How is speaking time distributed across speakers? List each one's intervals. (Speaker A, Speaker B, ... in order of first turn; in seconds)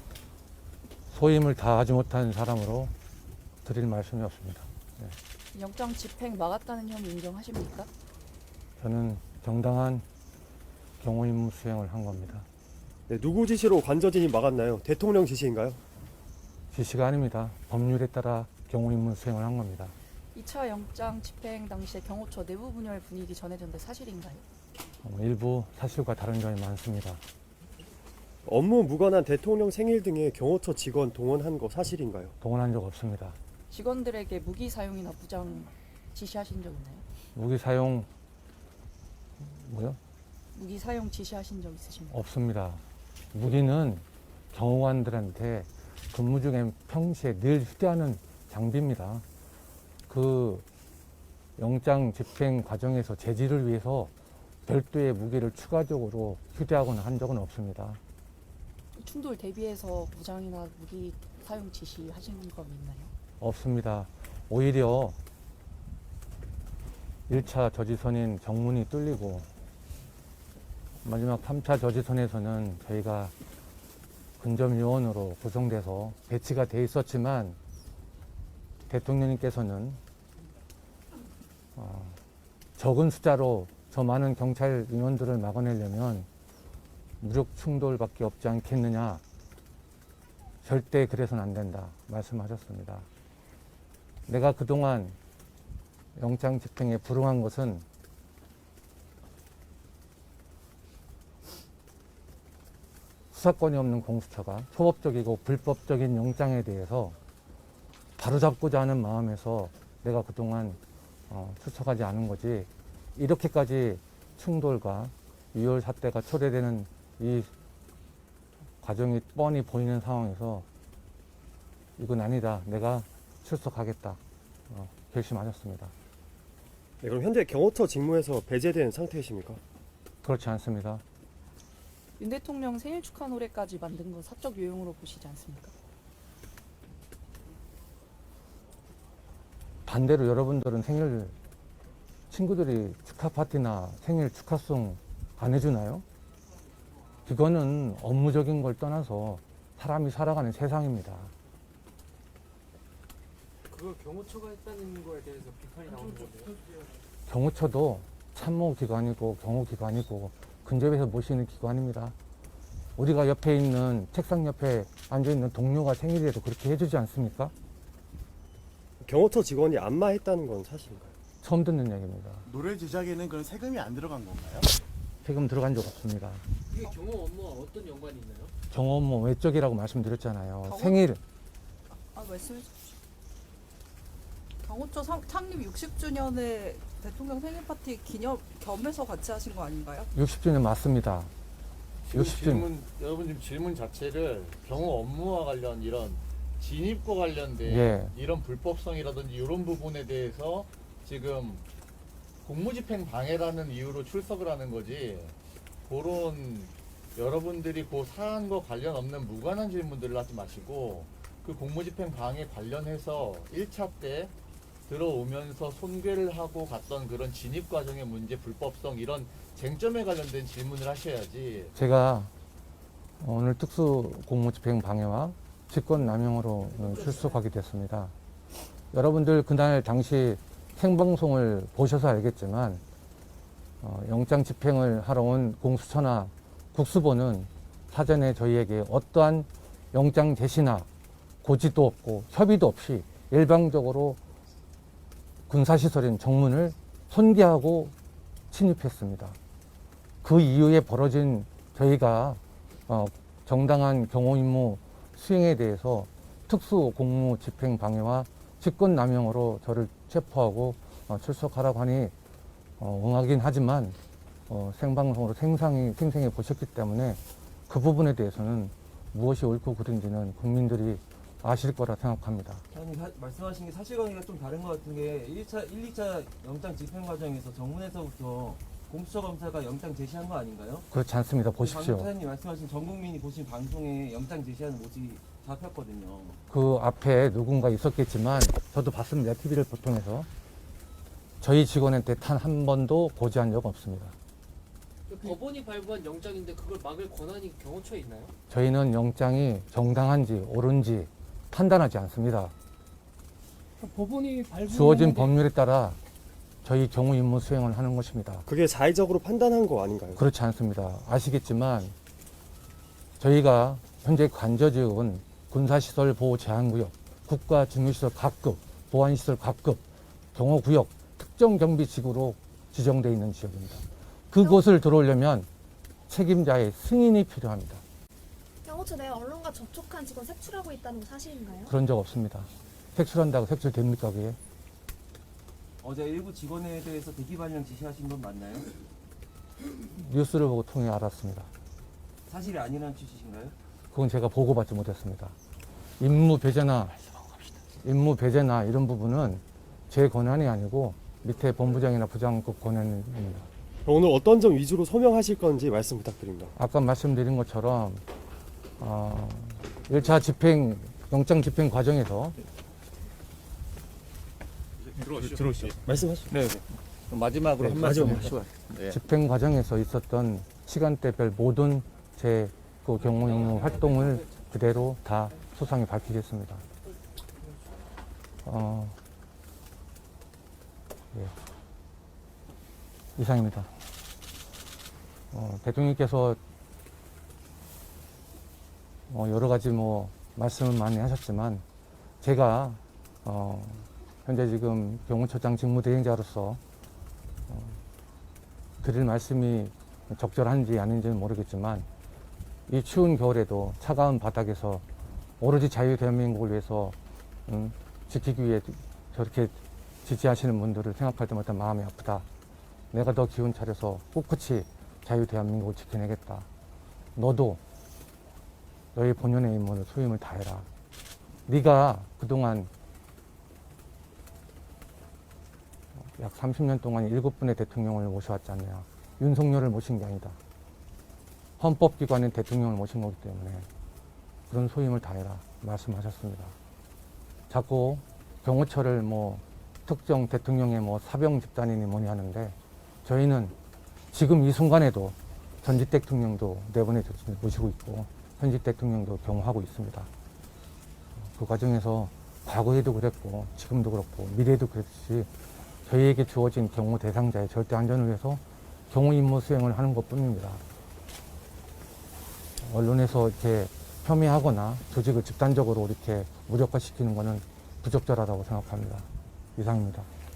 Speaker A: 1.1-2.9, 3.6-5.2, 8.8-10.1, 11.0-12.4, 16.7-19.9, 25.0-27.2, 32.4-33.4, 37.3-38.1, 39.4-40.0, 42.1-42.8, 43.3-49.2, 50.1-50.6, 51.6-54.1, 54.7-58.0, 63.4-65.2, 67.3-69.5, 71.0-73.3, 74.4-77.6, 78.9-80.0, 81.8-82.2, 82.8-86.3, 87.2-89.2, 90.6-93.1, 94.3-95.2, 96.2-97.8, 103.3-107.2, 108.2-110.8, 111.3-117.5, 118.8-120.7, 122.0-125.9, 130.2-131.0, 139.9-141.3, 142.3-146.1, 147.3-151.3, 157.3-162.2, 163.0-167.5, 171.4-172.5, 175.2-176.4, 178.7-181.2, 190.1-191.3, 192.1-192.7, 197.7-198.1, 221.8-222.3, 223.2-228.1, 228.9-232.8, 233.8-240.9, 241.4-244.2, 245.5-247.9, 248.5-249.4, 250.2-262.1, 262.8-264.0, 264.5-272.6, 280.9-282.1, 286.5-290.3, 291.4-294.1, 298.5-302.5, 304.7-306.0, 306.6-308.5, 310.2-311.9, 313.2-319.8, 320.3-325.5, 326.1-327.8, 331.7-334.4, 339.9-341.5, 343.9-345.4, 346.0-353.5, 356.6-358.0, 358.8-362.4, 368.9-376.6, 378.4-379.0, 383.2-383.7, 385.3-386.4, 389.1-391.6, 392.2-396.6, 397.5-397.8, 398.8-401.9, 402.7-404.8, 405.4-407.0, 407.5-412.2, 412.9-416.5, 417.2-417.6, 418.9-420.7, 421.5-422.7, 426.0-430.4, 431.6-433.7, 434.5-436.6, 437.5-443.5, 444.1-450.1, 451.2-455.3, 455.9-460.6, 462.6-470.1
Speaker B: 5.5-7.9, 20.3-24.4, 33.7-37.0, 40.5-42.2, 59.0-63.1, 132.2-135.7
Speaker C: 13.1-15.8, 28.4-32.3, 127.0-129.6, 169.0-171.2, 308.5-310.2, 353.9-356.5, 365.9-366.4, 367.7-368.3
Speaker D: 153.7-156.6, 176.7-178.5, 295.1-298.3, 303.9-305.3, 373.2-374.2
Speaker E: 172.4-174.7, 365.1-365.7
Speaker F: 181.9-182.7, 184.6-190.1
Speaker G: 192.1-201.6, 202.4-205.3, 205.9-214.3, 214.9-221.7, 367.1-368.9
Speaker H: 272.7-280.9, 281.6-286.4, 335.8-338.7, 342.3-343.6
Speaker I: 328.6-331.7